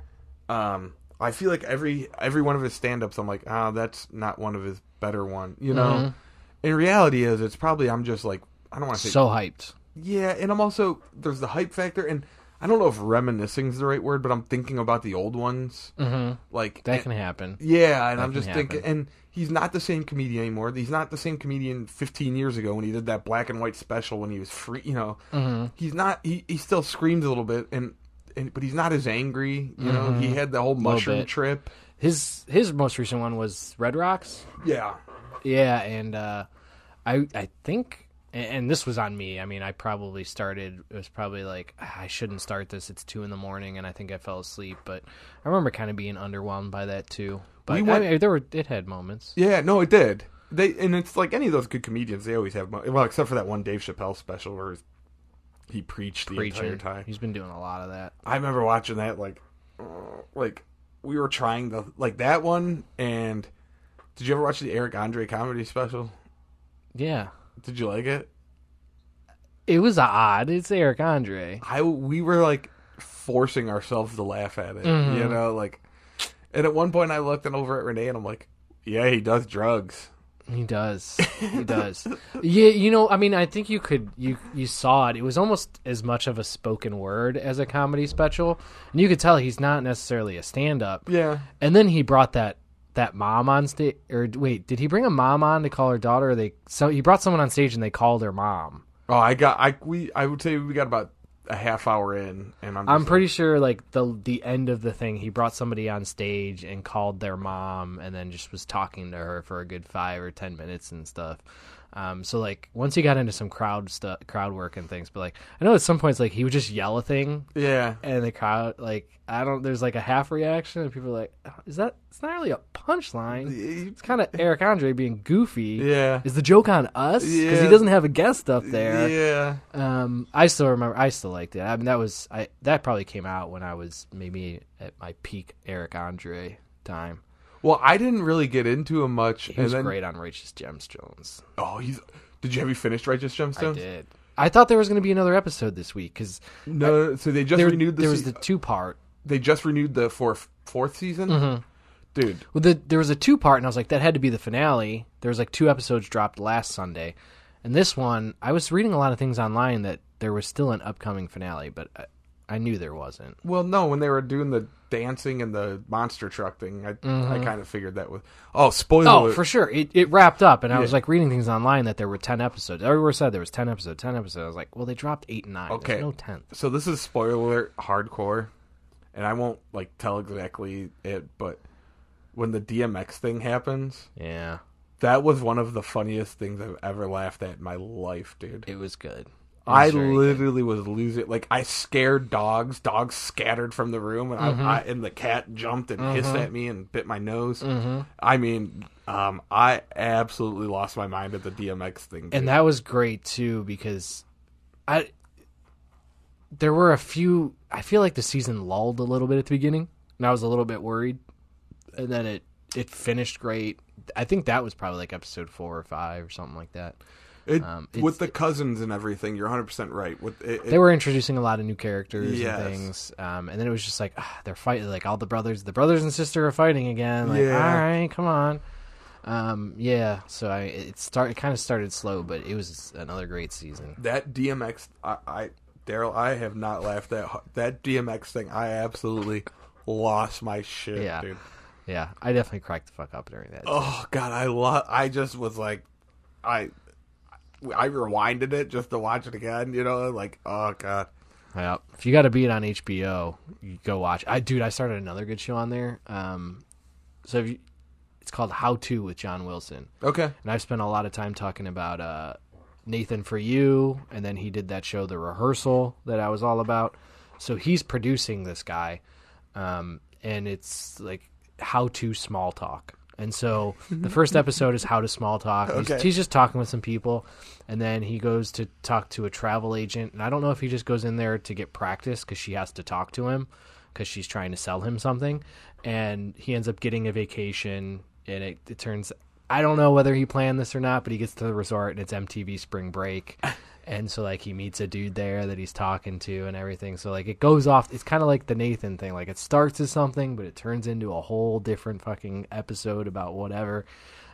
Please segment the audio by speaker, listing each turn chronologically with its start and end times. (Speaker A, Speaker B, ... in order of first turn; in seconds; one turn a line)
Speaker A: 0.5-6.1
Speaker B: 5.7-6.1
Speaker A: 6.6-9.2
Speaker B: 8.9-9.7
Speaker A: 9.9-15.9
Speaker B: 16.0-17.6
Speaker A: 16.5-17.1
Speaker A: 17.6-25.2
Speaker B: 18.2-18.8
Speaker B: 25.3-25.7
Speaker A: 25.8-31.7
Speaker B: 29.8-31.3
Speaker B: 32.0-34.5
Speaker A: 34.6-35.0
Speaker B: 35.4-36.5
Speaker B: 37.0-49.4
Speaker A: 47.7-48.1
Speaker A: 49.4-54.8
Speaker A: 55.7-57.1
Speaker B: 56.3-58.1
Speaker A: 58.2-63.5
Speaker A: 64.2-66.1
Speaker B: 66.9-67.3
Speaker A: 67.6-68.3
Speaker B: 69.7-71.6
Speaker A: 71.6-75.8
Speaker B: 74.8-75.4
Speaker A: 76.5-80.1
Speaker B: 80.5-91.1
Speaker A: 81.2-81.9
Speaker A: 91.1-91.5
Speaker B: 91.6-98.8
Speaker A: 99.1-103.2
Speaker B: 102.8-111.4
Speaker B: 111.9-117.5
Speaker A: 117.5-118.0
Speaker B: 118.0-129.2
Speaker A: 123.4-124.4
Speaker A: 125.8-126.2
Speaker A: 127.2-127.9
Speaker A: 128.6-129.6
Speaker B: 129.7-137.2
Speaker A: 137.6-139.9
Speaker B: 139.5-141.4
Speaker A: 141.6-143.8
Speaker B: 143.6-147.0
Speaker A: 146.7-148.4
Speaker B: 147.5-149.0
Speaker A: 149.2-151.4
Speaker B: 151.3-151.6
Speaker A: 152.1-152.4
Speaker B: 152.5-163.4
Speaker A: 163.4-169.4
Speaker B: 167.0-167.5
Speaker B: 169.0-176.4
Speaker A: 170.7-171.0
Speaker A: 175.7-178.5
Speaker A: 179.1-181.6
Speaker A: 182.3-184.1
Speaker B: 184.2-184.6
Speaker A: 185.0-188.7
Speaker B: 188.7-190.4
Speaker A: 189.7-197.6
Speaker B: 194.4-194.8
Speaker B: 196.0-196.5
Speaker B: 197.6-198.1
Speaker A: 198.2-202.6
Speaker B: 202.3-204.2
Speaker B: 206.6-211.2
Speaker B: 211.9-217.0
Speaker A: 217.5-220.8
Speaker B: 217.6-218.3
Speaker B: 220.7-228.6
Speaker A: 222.2-222.9
Speaker A: 227.2-227.8
Speaker B: 229.2-234.0
Speaker A: 234.0-241.4
Speaker B: 240.9-241.2
Speaker B: 241.9-244.0
Speaker A: 243.6-245.8
Speaker A: 246.4-246.7
Speaker A: 247.6-251.1
Speaker B: 251.5-256.6
Speaker B: 257.2-257.6
Speaker B: 258.2-259.9
Speaker A: 260.0-260.3
Speaker B: 260.4-269.0
Speaker B: 269.5-303.9
Speaker A: 275.7-276.1